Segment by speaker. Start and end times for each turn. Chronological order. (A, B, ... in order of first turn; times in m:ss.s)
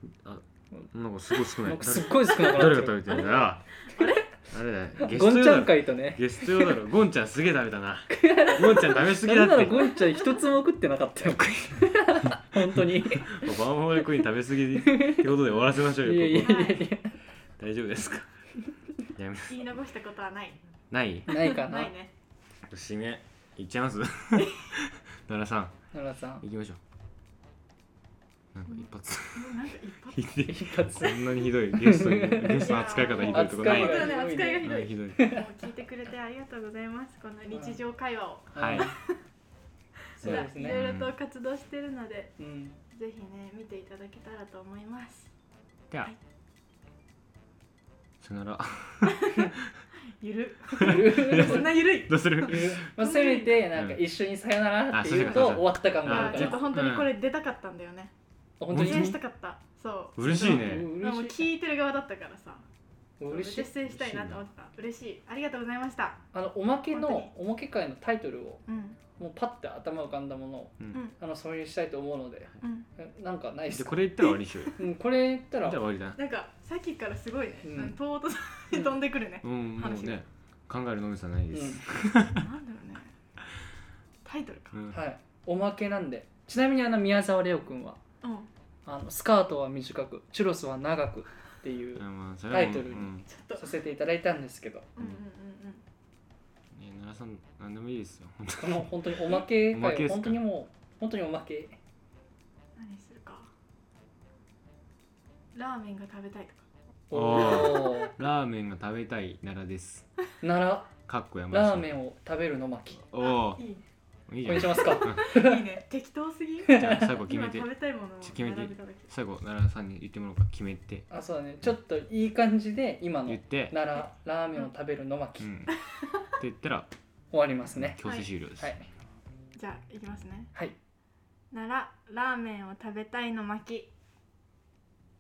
0:00.2-0:03.7 A
0:01.3-0:03.1 B
0:02.3-0:04.3 C
0:04.5-0:09.9 A
0:05.0-0:06.8 B
0:08.1-0:13.5 B
0:09.7-0:10.4 C
0:12.7-0:16.7 A
0:14.9-0:15.3 B
0:15.8-0:17.2 B
0:16.3-0:16.9 C
0:17.6-0:18.3 A
0:19.1-0:19.6 A
0:19.5-0:20.6 C
0:20.9-0:21.3 A
0:21.3-0:21.9 B
0:21.3-0:22.1 C
0:22.7-0:25.8 A
0:24.3-0:24.6 C
0:25.9-0:26.4 B
0:26.4-0:26.8 A
0:28.5-0:29.5 A
0:28.7-0:30.4 C
0:30.1-0:35.3 A
0:30.4-0:35.5 B
0:32.6-0:39.2 C
0:37.5-0:37.8 B
0:38.5-0:38.9 B
0:38.5-0:38.9 A
0:40.1-0:42.4 C
0:40.2-0:40.9 B
0:40.2-0:41.1 A
0:42.4-0:42.8 B
0:42.9-0:45.3 C
0:48.2-0:49.7 A
0:49.2-0:49.5 C
0:50.2-0:53.6 C
0:50.8-0:52.9 A
0:50.8-0:51.8 B
0:52.4-0:56.7 B
0:53.7-0:54.0 A
0:54.9-0:57.1 A
0:55.2-0:58.1 C
0:58.6-0:59.1 B
0:58.7-0:59.2 A
0:58.8-1:02.6 C
1:00.2-1:00.9 A
1:00.2-1:01.5 B
1:03.2-1:03.7 B
1:03.2-1:06.2 C
1:03.8-1:04.4 A
1:06.3-1:14.1 B
1:06.9-1:07.3 C
1:08.7-1:09.0 C
1:12.6-1:12.9 C
1:13.7-1:14.8 A
1:14.7-1:15.8 B
1:15.6-1:16.2 A
1:16.2-1:20.2 C
1:17.6-1:18.0 B
1:19.4-1:22.4 A
1:21.5-1:21.9 B
1:22.3-1:23.1 C
1:24.2-1:24.8 C
1:24.7-1:25.0 A
1:24.9-1:28.0 B
1:28.2-1:28.5 C
1:28.8-1:34.9 B
1:32.0-1:33.3 A
1:33.3-1:33.7 C
1:35.0-1:35.8 C
1:36.7-1:40.4 A
1:38.6-1:41.8 B
1:42.8-1:43.5 C
1:45.5-1:46.6 C
1:47.1-1:48.1 B
1:47.1-1:50.1 A
1:50.4-1:53.0 B
1:51.1-1:51.9 A
1:53.0-1:53.6 A
1:53.2-1:53.8 C
1:54.3-1:55.2 A
1:54.4-1:55.8 B
1:54.5-1:59.1 C
1:56.6-1:57.2 B
1:56.7-1:57.7 A
1:58.2-2:01.0 A
2:01.1-2:05.5 B
2:03.3-2:03.8 A
2:05.4-2:05.8 A
2:06.4-2:06.9 A
2:07.3-2:08.0 B
2:07.8-2:08.7 A
2:08.6-2:08.8 B
2:09.6-2:10.5 C
2:11.5-2:13.9 C